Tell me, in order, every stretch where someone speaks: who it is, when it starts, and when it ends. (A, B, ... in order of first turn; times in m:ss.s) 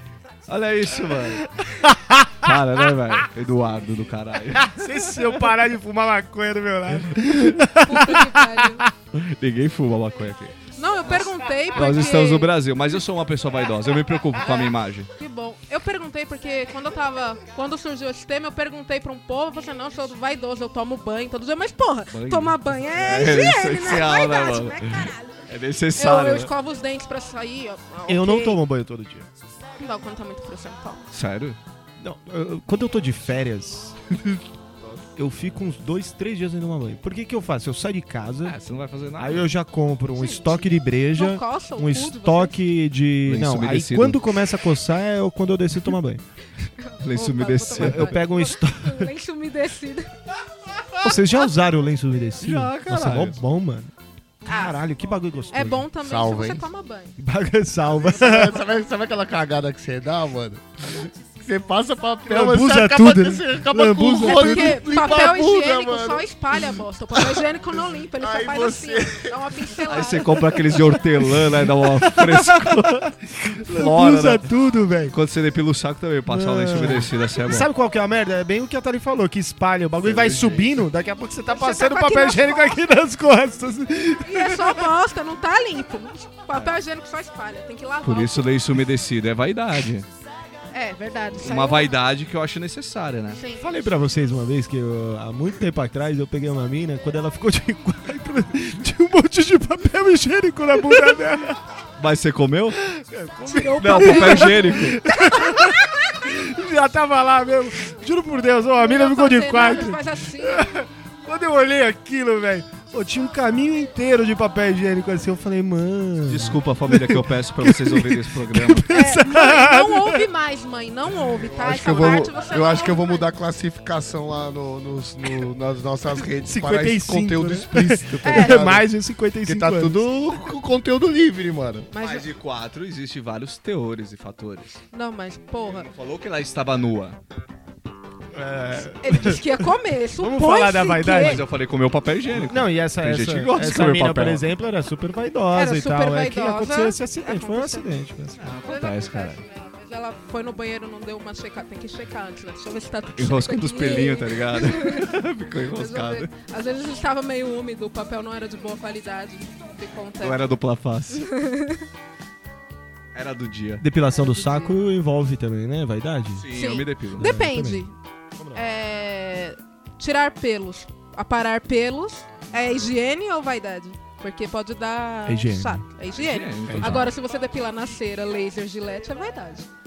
0:00.4-0:01.5 A
0:01.1-0:02.5 B
0:02.4-0:04.9 A
0:04.5-0:08.9 B
0:07.8-0:08.9 C
0:09.1-0:10.6 A
0:10.8-0:12.5 C
0:11.7-0:15.1 A
0:15.2-0:25.4 C
0:22.1-0:26.5 A
0:26.0-0:28.6 C
0:28.1-0:29.3 B
0:29.8-0:31.0 C
0:31.1-0:31.6 A
0:32.0-0:34.0 B
0:35.2-0:38.6 B
0:38.4-0:39.5 A
0:39.2-0:46.2 B
0:40.2-0:42.6 C
0:43.3-0:44.2 A
0:46.8-0:50.1 C
0:47.0-0:48.2 A
0:47.7-0:49.1 B
0:51.0-0:53.9 B
0:52.4-0:53.4 A
0:54.4-0:55.9 B
0:54.4-0:54.8 C
0:55.5-0:57.2 C
0:56.0-0:56.6 D
0:57.2-0:58.6 B
0:58.1-1:06.3 D
1:02.2-1:04.9 B
1:04.1-1:10.6 C
1:08.2-1:09.5 D
1:09.8-1:14.5 A
1:11.1-1:15.2 B
1:15.1-1:17.7 A
1:16.3-1:24.9 B
1:20.0-1:20.7 A
1:21.5-1:22.8 C
1:24.2-1:28.6 C
1:28.0-1:30.1 A
1:30.7-1:31.9 C
1:31.4-1:33.4 A
1:33.3-1:33.7 C
1:33.6-1:41.6 B
1:42.0-1:42.8 A
1:42.8-2:00.3 B
1:43.5-1:45.8 C
1:43.8-1:45.0 A
1:48.8-1:50.7 C
1:56.2-1:58.9 A
1:58.9-2:03.3 C
2:01.5-2:08.9 D
2:06.4-2:10.1 B
2:08.2-2:08.7 C
2:09.4-2:11.9 D
2:11.9-2:12.3 C
2:12.0-2:14.8 A
2:14.9-2:15.9 C
2:15.6-2:17.2 A
2:18.3-2:21.4 B
2:19.0-2:21.4 C
2:21.1-2:24.4 A
2:22.3-2:28.5 B
2:25.5-2:27.9 C
2:28.4-2:29.4 A
2:28.6-2:35.1 C
2:33.2-2:36.3 A
2:35.7-2:40.5 C
2:40.2-2:41.3 A
2:41.1-2:41.9 C
2:43.1-2:43.8 A
2:43.8-2:46.4 B
2:44.2-2:44.8 C
2:46.4-2:47.3 A
2:46.5-2:47.9 C
2:47.2-2:47.8 B
2:48.4-2:48.6 B
2:48.5-2:59.7 C
2:55.2-2:55.8 B
2:56.2-2:57.1 A
2:56.7-2:57.1 B